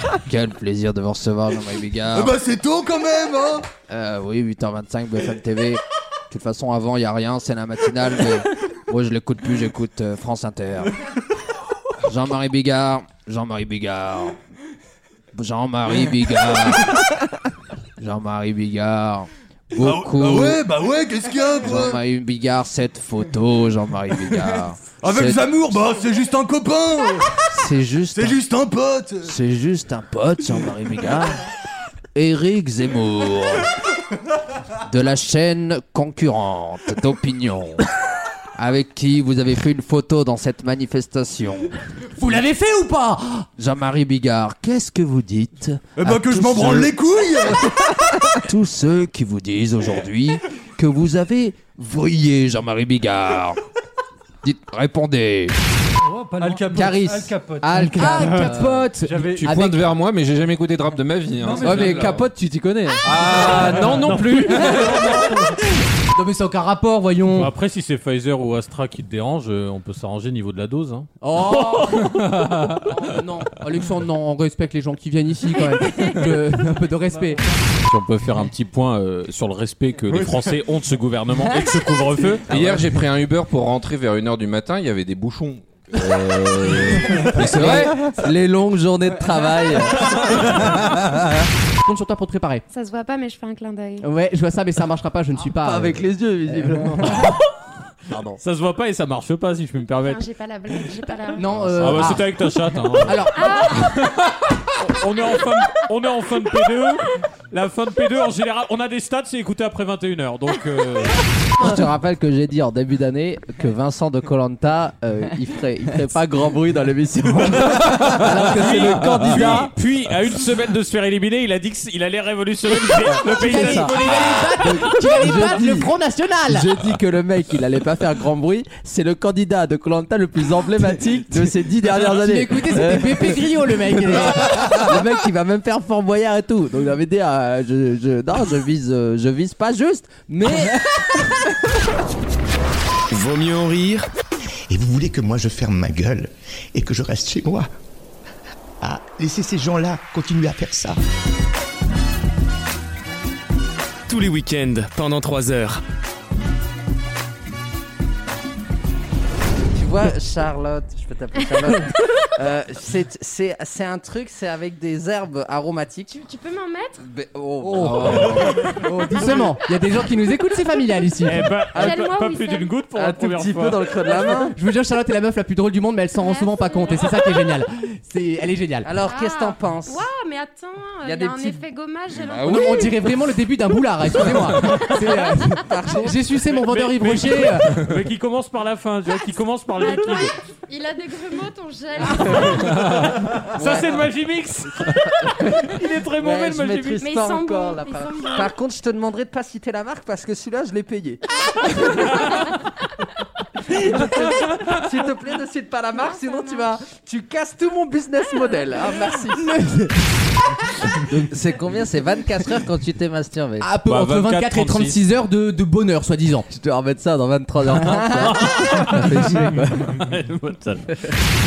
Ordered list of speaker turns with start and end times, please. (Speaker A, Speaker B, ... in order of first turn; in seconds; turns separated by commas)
Speaker A: 0.2-2.4, Speaker B: 2.1-3.7, Speaker A: 3.9-10.9, Speaker A: 12.0-14.4, Speaker A: 15.3-17.0, Speaker A: 18.0-20.6, Speaker B: 19.7-22.0, Speaker A: 21.6-25.5, Speaker B: 25.0-27.4, Speaker A: 27.5-28.4, Speaker B: 28.1-29.4, Speaker A: 29.2-31.4, Speaker A: 32.1-33.7, Speaker A: 34.9-37.8, Speaker A: 38.6-41.7, Speaker C: 42.2-43.5, Speaker A: 43.6-47.0, Speaker B: 46.0-47.9, Speaker A: 48.3-53.6, Speaker A: 54.4-55.5, Speaker D: 56.4-58.1, Speaker A: 56.7-59.7, Speaker C: 57.9-59.8, Speaker D: 59.0-59.5, Speaker E: 59.2-62.3, Speaker D: 61.4-62.2, Speaker A: 61.5-63.6, Speaker E: 63.0-65.2, Speaker F: 63.8-64.9, Speaker C: 65.0-67.5, Speaker F: 67.3-72.9, Speaker C: 71.2-72.2, Speaker C: 72.8-77.4, Speaker F: 77.9-82.6, Speaker E: 82.5-88.0, Speaker A: 87.3-90.8, Speaker C: 91.8-92.7, Speaker G: 92.7-94.1, Speaker C: 94.0-97.2, Speaker A: 95.4-97.3, Speaker A: 98.1-98.4, Speaker F: 98.4-100.3, Speaker G: 100.0-101.7, Speaker C: 101.4-102.3, Speaker F: 101.8-104.0, Speaker C: 103.0-103.5, Speaker G: 103.3-104.1, Speaker F: 104.8-111.2, Speaker A: 111.6-119.7, Speaker E: 117.8-118.3, Speaker F: 118.5-124.8, Speaker D: 118.9-119.7, Speaker C: 123.2-126.7, Speaker A: 123.3-125.9, Speaker A: 126.5-133.5, Speaker C: 131.9-134.8, Speaker A: 134.0-140.9, Speaker H: 143.1-144.1, Speaker I: 144.7-147.7, Speaker I: 148.8-151.0, Speaker H: 154.1-155.8, Speaker A: 159.7-166.2, Speaker G: 166.1-167.1, Speaker A: 167.0-168.6, Speaker C: 167.6-171.4, Speaker E: 167.8-168.6, Speaker F: 171.2-174.1, Speaker G: 171.7-172.8, Speaker A: 171.8-172.0, Speaker A: 172.9-174.6, Speaker C: 174.5-178.9, Speaker G: 176.2-177.3, Speaker A: 178.8-180.1, Speaker G: 179.0-183.0, Speaker A: 181.0-181.6, Speaker C: 182.4-187.8, Speaker A: 185.6-186.2, Speaker F: 186.4-190.3, Speaker G: 189.7-192.9, Speaker F: 192.3-197.0, Speaker A: 193.5-194.0, Speaker A: 195.4-202.3, Speaker G: 197.0-198.6, Speaker A: 203.7-209.5, Speaker G: 206.0-206.7, Speaker C: 209.4-210.1, Speaker A: 210.9-213.7, Speaker C: 213.6-216.5, Speaker F: 213.9-215.0, Speaker A: 216.5-220.0, Speaker F: 218.2-220.9